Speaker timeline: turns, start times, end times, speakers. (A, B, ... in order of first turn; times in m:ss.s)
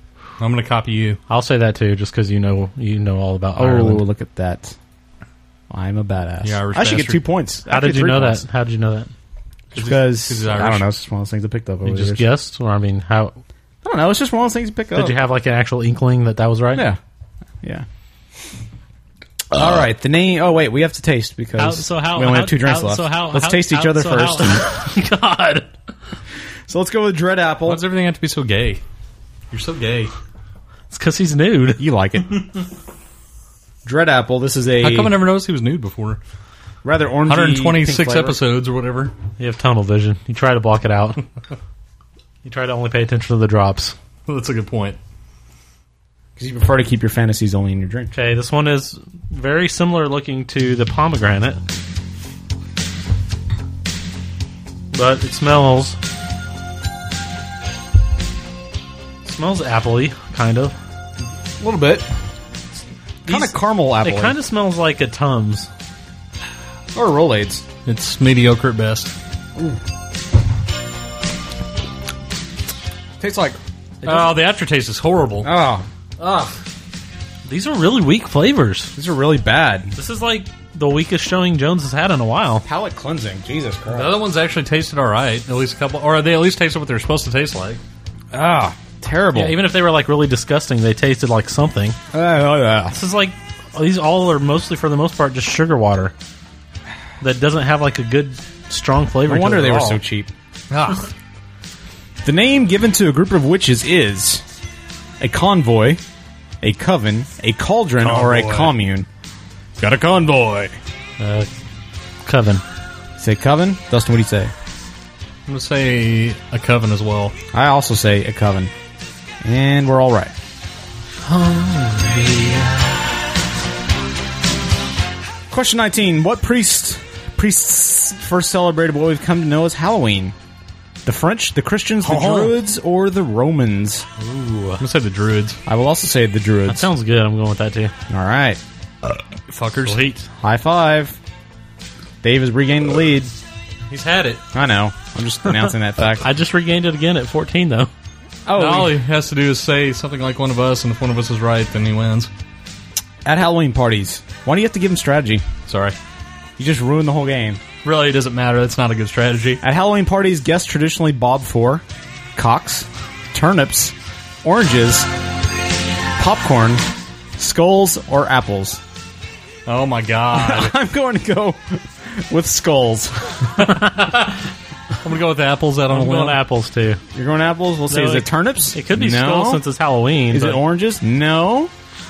0:00.4-0:01.2 A
0:01.3-0:04.0 B
0:03.6-0:04.8 C
0:05.7-0:08.4 C
0:06.4-0:07.2 A
0:07.7-0:09.1 B
0:09.7-0:12.2 C
0:09.8-0:10.9 A
0:11.8-0:13.4 B
0:13.8-0:15.2 C
0:15.0-0:16.9 B
0:19.5-0:24.7 C
0:21.6-0:25.7 B
0:26.7-0:27.8 C
0:27.7-0:28.8 A
0:29.5-0:30.1 A
0:30.9-0:31.8 B
0:31.8-0:32.4 C
0:33.8-0:35.2 C
0:34.8-0:36.2 A
0:36.8-0:38.4 C
0:37.3-0:39.1 A
0:39.4-0:41.2 B
0:42.4-0:44.0 B
0:44.3-0:45.0 A
0:46.4-0:48.1 C
0:48.1-0:51.6 B
0:54.9-0:56.0 B
0:59.2-1:00.8 B
1:01.6-1:02.1 C
1:03.2-1:04.4 C
1:03.3-1:05.7 B
1:06.9-1:07.6 C
1:07.9-1:09.1 A
1:13.2-1:13.6 C
1:14.0-1:14.3 B
1:14.0-1:15.5 A
1:15.4-1:15.9 C
1:16.2-1:16.6 A
1:17.5-1:18.9 B
1:19.0-1:20.0 C
1:20.0-1:22.6 B
1:22.6-1:24.2 C
1:23.9-1:27.8 A
1:28.3-1:29.6 C
1:29.3-1:32.0 B
1:32.1-1:33.0 C
1:32.9-1:36.1 B
1:37.2-1:40.0 B
1:39.3-1:40.3 C
1:40.7-1:41.1 A
1:42.2-1:44.4 C
1:45.2-1:46.0 C
1:46.6-1:49.1 C
1:48.0-1:48.7 A
1:49.8-1:50.7 C
1:51.2-1:51.5 B
1:52.2-1:52.6 B
1:53.2-1:54.5 C
1:55.5-1:57.4 A
1:57.5-1:58.7 C
1:59.4-2:00.3 C
2:01.2-2:03.0 B
2:05.5-2:10.4 C
2:11.0-2:14.1 C
2:12.0-2:12.6 B
2:14.2-2:14.8 B
2:14.8-2:15.6 A
2:15.7-2:16.9 C
2:16.7-2:17.9 B
2:18.1-2:18.6 C
2:19.5-2:20.0 A
2:19.8-2:20.3 B
2:20.4-2:21.2 C
2:22.2-2:23.3 C
2:23.9-2:24.4 A
2:24.5-2:26.2 C
2:26.2-2:27.9 B
2:28.5-2:29.0 C
2:28.6-2:32.3 A
2:33.2-2:35.4 C
2:35.7-2:36.0 A
2:36.6-2:37.6 C
2:37.8-2:39.6 A
2:39.6-2:41.8 C
2:42.4-2:45.1 C
2:46.2-2:46.8 C
2:47.4-2:48.8 C
2:49.7-2:50.8 A
2:50.3-2:53.3 C
2:53.6-2:54.4 A
2:55.0-2:56.4 A
2:55.9-2:57.0 B
2:57.1-2:59.6 C
2:57.9-3:00.6 B
3:00.3-3:01.7 C